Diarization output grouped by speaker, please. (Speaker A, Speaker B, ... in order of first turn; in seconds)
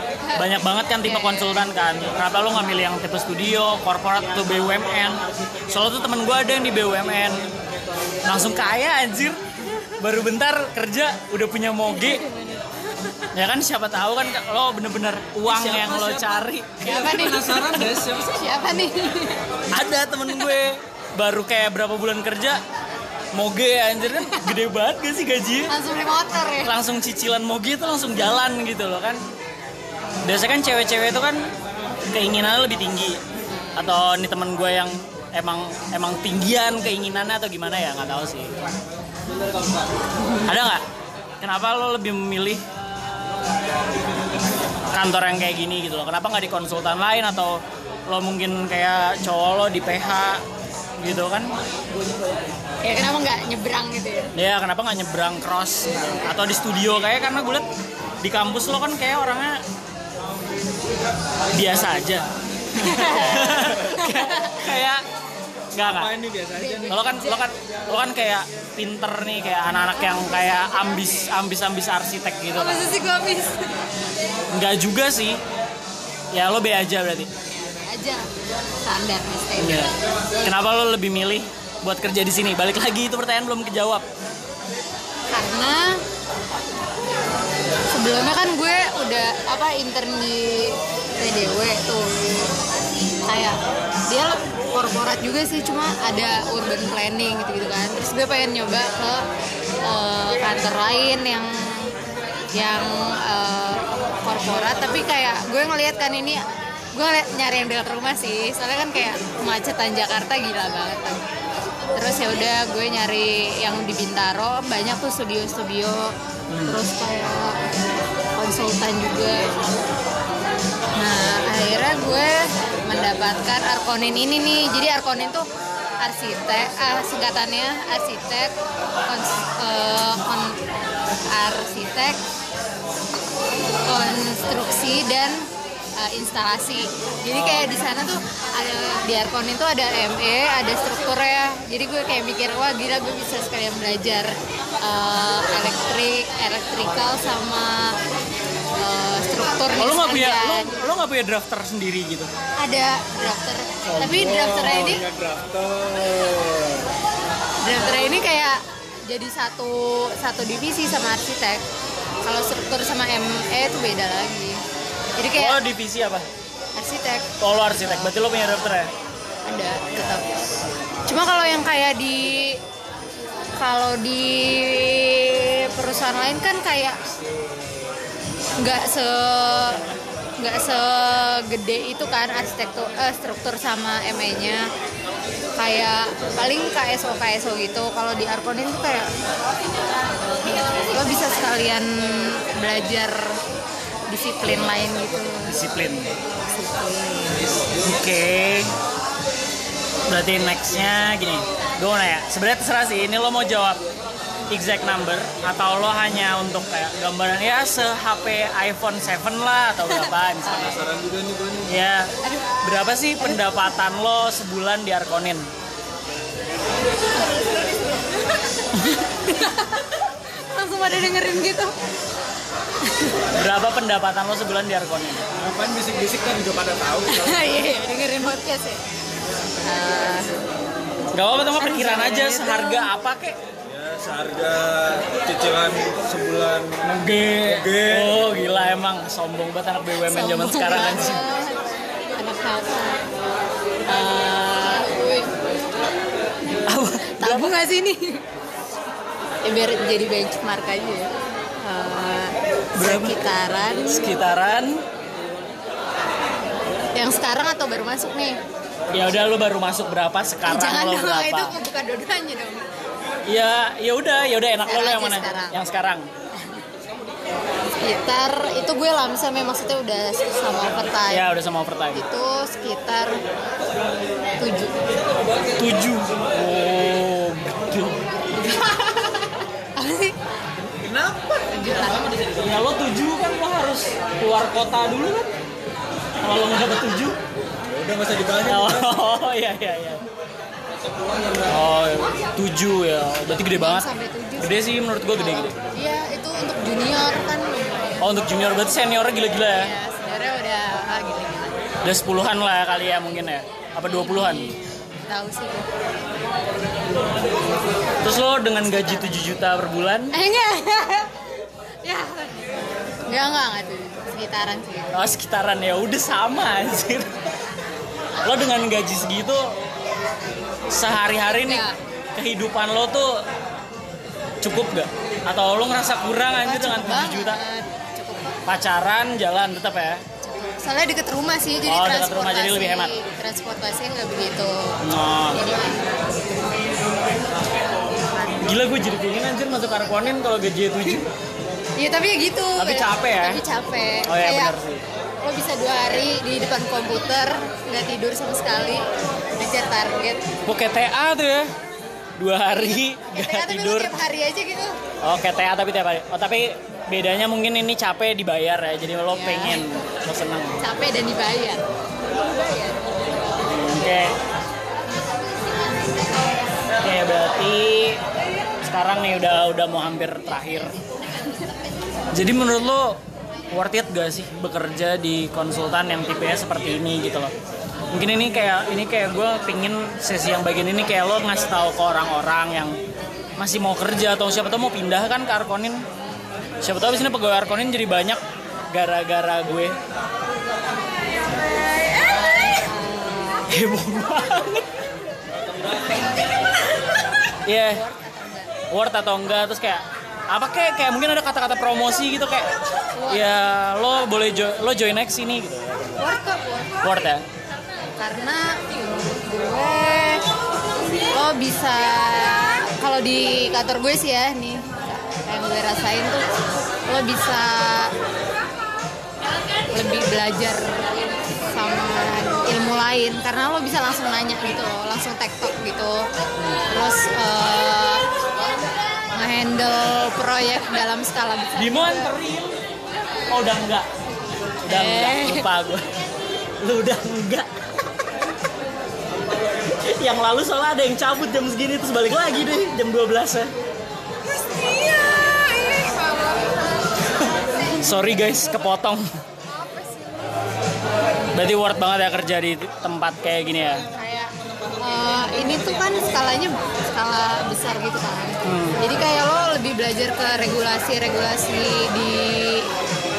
Speaker A: 0.2-1.6, 16.8-19.4, 20.3-20.6, 25.7-26.7, 52.8-54.3, 62.7-64.6, 66.5-67.5, 72.5-73.8, 77.5-78.3, 78.8-80.0, 85.3-86.0, 87.9-92.1, 93.2-93.6, 94.1-99.3, 99.8-101.9, 102.5-106.4, 106.9-111.2, 111.9-116.1, 116.7-117.6, 118.3-119.5, 121.0-125.4, 126.0-128.5, 129.1-130.6, 131.3-132.2, 133.8-148.0, 148.8-150.8, 152.6-155.0, 157.6-161.6, 162.2-164.6, 165.2-165.6, 166.7-167.3, 169.4-170.3, 171.1-172.6, 173.6-177.0, 178.6-179.8, 180.4-184.6, 185.5-189.1, 190.6-193.2, 194.1-195.6, 196.5-197.5, 210.5-210.8, 212.2-212.6, 218.3-221.7, 222.9-223.2, 227.0-228.8, 229.6-230.3, 231.6-232.9, 240.0-243.1, 243.9-245.3, 247.0-248.2, 249.4-254.1, 256.9-258.4, 260.4-262.6, 264.6-265.5, 267.8-271.3, 271.9-273.2, 274.4-274.7, 278.4-280.1, 281.5-282.1, 293.5-294.6, 295.2-298.0, 299.5-301.6, 303.9-304.6, 305.1-305.7, 308.6-309.2, 310.1-311.3, 311.8-315.0, 321.2-321.8, 326.4-328.4, 330.2-336.1, 338.1-338.4, 341.8-344.6, 345.2-348.9, 349.4-350.2, 353.1-354.8, 359.1-359.6, 360.6-361.6, 362.2-362.8, 392.0-393.5, 397.6-398.5, 402.9-403.3, 406.0-406.8, 408.0-410.2, 411.1-416.3, 416.9-417.9, 419.7-420.8, 421.5-426.1, 426.7-428.0, 429.1-432.1, 434.7-435.5, 453.9-462.7
Speaker B: 0.3-7.4, 8.2-9.4, 10.0-12.2, 13.3-16.9, 19.7-22.6, 23.3-25.7, 26.6-29.2, 30.2-31.5, 32.1-33.2, 33.8-38.5, 40.5-40.8, 41.4-42.6, 44.9-50.4, 51.0-51.5, 54.3-57.7, 58.2-59.6, 61.5-65.0, 65.7-66.2, 66.9-73.0, 74.5-75.4, 76.3-77.3, 79.6-84.0, 116.5-116.8, 137.3-137.7, 149.8-152.3, 153.9-154.9, 165.3-166.3, 167.4-168.9, 195.4-196.1, 197.8-198.7, 200.1-203.8, 204.5-210.9, 211.7-215.5, 223.3-225.4, 231.1-233.4, 236.8-241.3, 246.7-247.6, 252.8-253.2, 253.9-254.8, 258.9-261.6, 263.2-266.1, 271.1-272.0, 275.6-278.0, 282.3-285.3, 286.2-287.2, 288.4-290.0, 291.5-293.9, 294.4-295.6, 298.0-299.7, 301.8-304.5, 308.0-310.1, 314.9-317.2, 318.2-319.5, 320.7-323.2, 324.4-327.4, 328.4-330.0, 331.6-332.9, 334.8-335.4, 338.4-341.1, 342.6-343.4, 344.1-344.8, 350.4-351.5, 352.2-353.9, 355.0-360.6, 363.3-364.1, 366.8-368.0, 368.6-370.8, 372.1-373.0, 373.5-377.3, 377.9-382.8, 383.4-385.8, 386.6-389.8, 393.5-394.7, 397.4-397.8, 398.7-402.5, 403.1-406.0, 406.8-407.2, 431.6-432.6, 433.3-433.9, 434.6-435.9, 436.6-437.9, 439.7-443.5, 447.7-449.1, 451.3-453.8, 458.4-458.8
Speaker C: 15.5-16.4, 17.1-18.2, 66.2-66.8, 154.3-156.9, 210.8-211.7, 225.4-227.2, 233.7-236.8, 237.6-238.1, 280.8-281.4, 287.7-288.7